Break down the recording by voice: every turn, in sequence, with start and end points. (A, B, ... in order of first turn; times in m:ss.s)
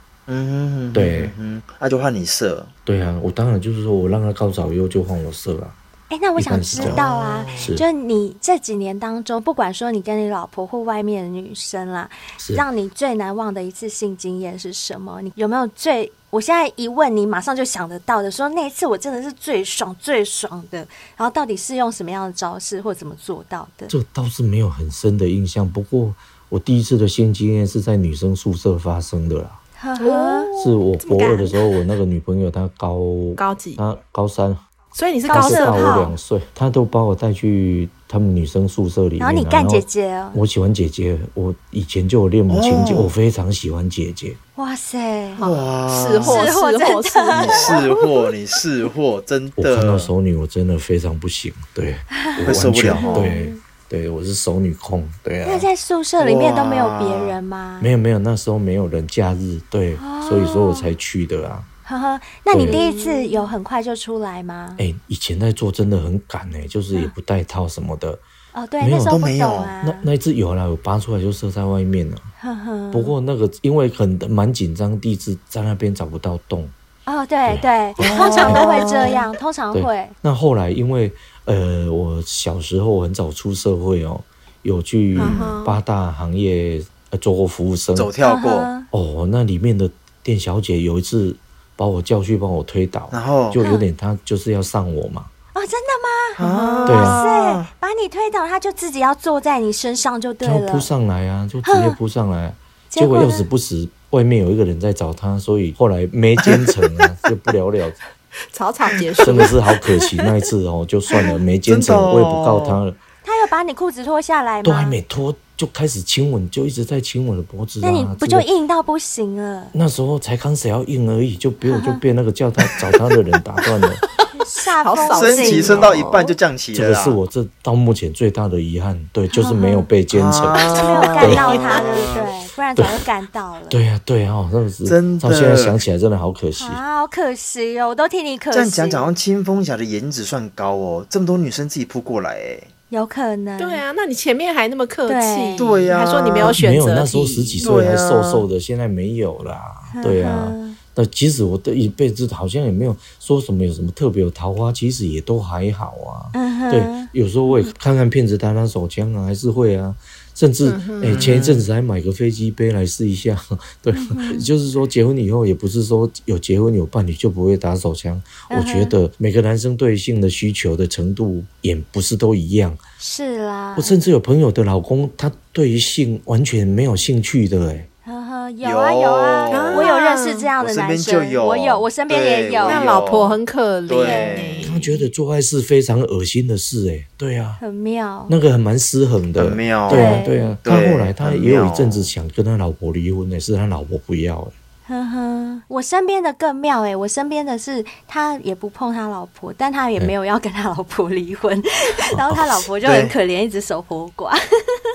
0:00.3-0:02.7 A
0:00.9-0:01.3 B
0:02.9-0:05.8 B
0:06.1-0:23.9 C
0:06.4-0:07.0 B
0:06.8-0:07.7 A
0:07.6-0:07.8 B
0:12.4-0:12.6 B
0:23.9-0:29.6 B
0:29.8-0:30.5 C
0:30.0-0:31.7 D
0:30.6-0:34.6 B
0:33.4-0:33.8 D
0:34.9-0:36.0 D
0:35.3-0:36.1 C
0:35.3-0:44.4 B
0:39.2-0:40.4 C
0:42.5-0:43.1 A
0:44.6-0:45.4 C
0:45.4-0:47.8 D
0:45.4-0:46.5 A
0:46.2-0:48.0 C
0:47.3-0:50.1 A
0:49.6-0:55.7 B
0:52.2-0:53.6 C
0:52.4-0:53.3 A
0:55.4-0:57.9 C
0:56.2-0:57.4 A
0:57.8-1:01.7 B
1:00.0-1:01.0 C
1:01.9-1:04.8 C
1:02.5-1:02.8 B
1:02.7-1:03.5 D
1:04.8-1:08.2 B
1:08.5-1:10.1 C
1:08.8-1:09.2 B
1:09.0-1:09.7 A
1:09.8-1:12.3 B
1:12.4-1:13.1 C
1:12.9-1:16.7 B
1:17.1-1:20.2 C
1:17.5-1:19.1 B
1:18.0-1:19.1 A
1:19.7-1:28.1 B
1:25.2-1:25.5 A
1:25.2-1:25.8 D
1:28.0-1:28.7 A
1:28.2-1:28.9 C
1:28.9-1:35.3 B
1:33.1-1:33.6 A
1:33.6-1:33.9 C
1:35.6-1:40.9 C
1:36.4-1:37.7 A
1:36.9-1:37.2 B
1:40.4-1:48.0 B
1:41.6-1:42.0 C
1:42.9-1:43.5 C
1:48.5-1:49.6 D
1:49.2-1:53.0 B
1:51.7-1:52.8 A
1:53.2-1:55.0 C
1:54.6-1:58.5 B
1:57.8-1:59.8 C
1:59.7-2:04.0 B
2:01.6-2:02.0 C
2:04.4-2:06.0 C
2:04.8-2:06.4 D
2:05.1-2:07.2 A
2:06.7-2:11.6 B
2:09.3-2:09.9 C
2:10.1-2:12.3 A
2:10.8-2:13.8 C
2:11.7-2:12.0 D
2:12.8-2:13.0 B
2:13.7-2:16.8 B
2:14.8-2:15.8 A
2:16.6-2:19.1 C
2:18.5-2:22.7 A
2:22.9-2:23.8 C
2:23.6-2:27.6 D
2:25.1-2:25.9 C
2:25.6-2:26.6 A
2:26.5-2:52.8 B
2:27.6-2:28.4 A
2:29.9-2:30.8 C
2:36.3-2:37.7 C
2:40.6-2:41.3 D
2:41.1-2:41.7 A
2:43.9-2:44.5 C
2:48.5-2:48.9 C
2:53.0-2:54.0 C
2:53.8-2:57.9 B
2:58.0-3:02.8 C
2:58.6-2:59.9 A
2:59.5-3:00.5 D
3:00.6-3:04.7 A
3:02.6-3:05.0 D
3:04.0-3:04.4 C
3:04.6-3:07.6 B
3:07.6-3:08.4 C
3:08.3-3:14.5 B
3:09.4-3:12.1 A
3:09.9-3:10.4 C
3:14.9-3:24.8 C
3:22.1-3:22.7 B
3:22.8-3:23.2 A